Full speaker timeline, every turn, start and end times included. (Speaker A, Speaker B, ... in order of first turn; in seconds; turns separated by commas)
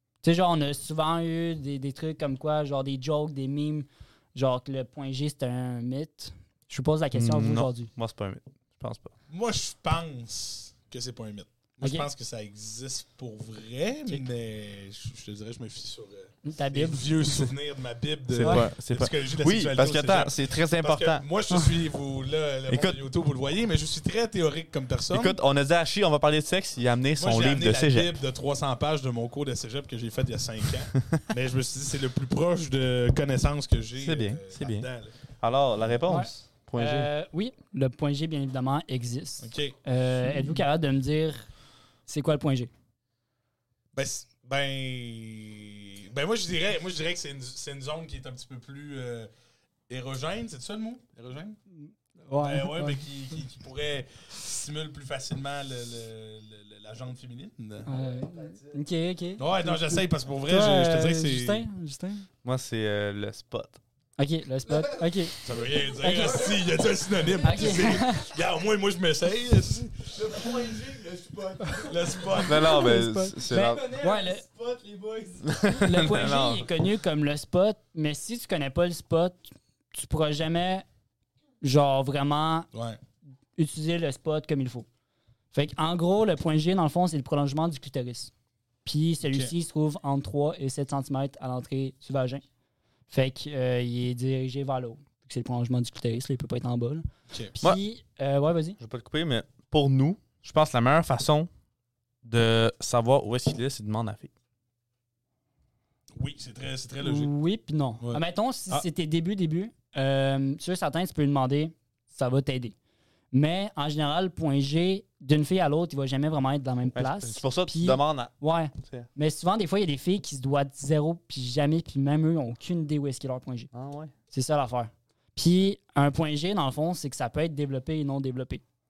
Speaker A: 0.2-7.9, Speaker B: 7.1-9.1, Speaker C: 9.3-25.4, Speaker A: 16.4-17.1, Speaker B: 18.3-21.2, Speaker B: 22.7-23.0, Speaker B: 25.1-28.1, Speaker C: 27.2-35.2, Speaker B: 34.0-37.1, Speaker A: 36.1-41.5, Speaker C: 39.4-39.8, Speaker A: 42.1-42.7, Speaker C: 43.9-49.3, Speaker C: 49.9-51.6, Speaker A: 51.7-53.0, Speaker C: 52.4-57.9, Speaker A: 57.9-62.3, Speaker D: 57.9-58.8, Speaker C: 59.4-61.7, Speaker B: 62.4-63.8, Speaker A: 64.2-65.3, Speaker D: 64.7-65.0, Speaker C: 65.4-70.0, Speaker A: 66.0-66.5, Speaker D: 66.0-66.7, Speaker A: 67.4-68.3, Speaker D: 67.4-67.8, Speaker D: 70.1-72.5, Speaker C: 71.8-72.8, Speaker A: 72.4-74.4, Speaker B: 72.4-73.9, Speaker D: 73.6-75.6, Speaker B: 75.5-76.7, Speaker A: 75.7-80.8, Speaker A: 81.6-82.7, Speaker C: 82.7-83.0, Speaker A: 83.6-84.9, Speaker A: 85.5-88.3, Speaker A: 88.8-92.4, Speaker A: 93.1-97.1, Speaker A: 97.6-98.8, Speaker B: 98.8-101.5, Speaker B: 102.2-104.3, Speaker C: 106.2-107.3, Speaker A: 107.0-112.7, Speaker A: 113.3-123.7, Speaker B: 116.9-119.1, Speaker B: 123.7-124.1, Speaker A: 124.3-128.6